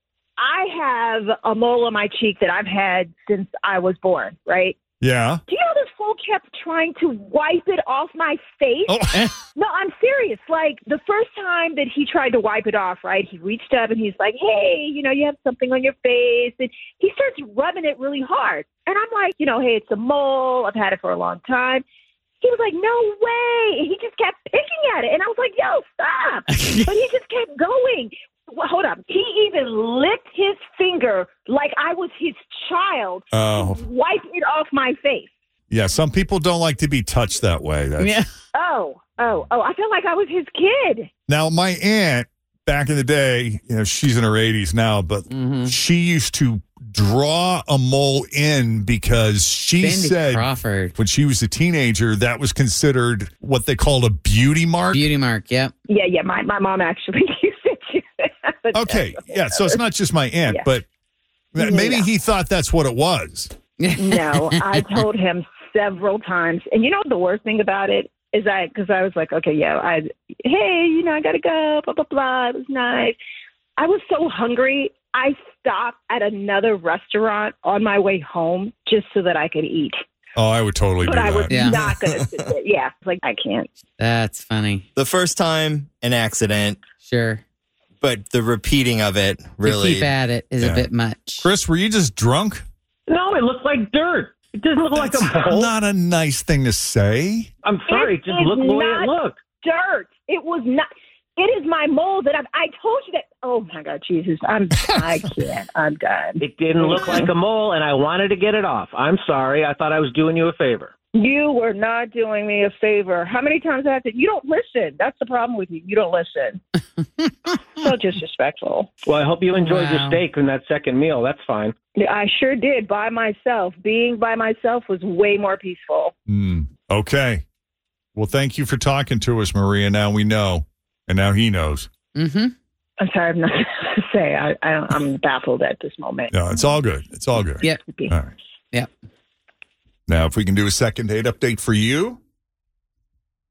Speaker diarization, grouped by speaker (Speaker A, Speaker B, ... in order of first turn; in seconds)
Speaker A: 0.4-4.8, 5.5-9.0, 9.5-21.8, 22.4-35.3, 38.5-41.1, 55.9-59.8, 61.6-62.1, 64.0-73.2, 73.8-80.0, 81.0-83.7, 97.9-107.3, 111.1-116.6, 117.8-118.9, 122.0-126.1, 133.0-136.6, 137.5-138.1
Speaker B: 5.0-5.4, 8.9-9.3, 33.3-33.8, 35.7-38.2, 41.3-55.0, 58.7-60.8, 61.5-63.5, 80.3-81.7, 90.6-90.9, 91.4-92.6, 94.9-97.5, 126.3-127.4, 128.1-131.9, 136.3-138.3, 140.1-142.2
Speaker C: 26.5-26.9, 38.0-38.3, 45.3-45.8, 49.8-50.9, 54.9-55.7, 63.8-64.8, 81.5-81.8, 84.0-84.9, 87.0-87.4, 89.6-91.4, 119.5-120.2, 132.1-132.5
Speaker D: 85.0-86.8, 88.0-90.1
Speaker E: 93.1-95.7, 97.6-99.4, 106.4-110.9, 119.0-121.7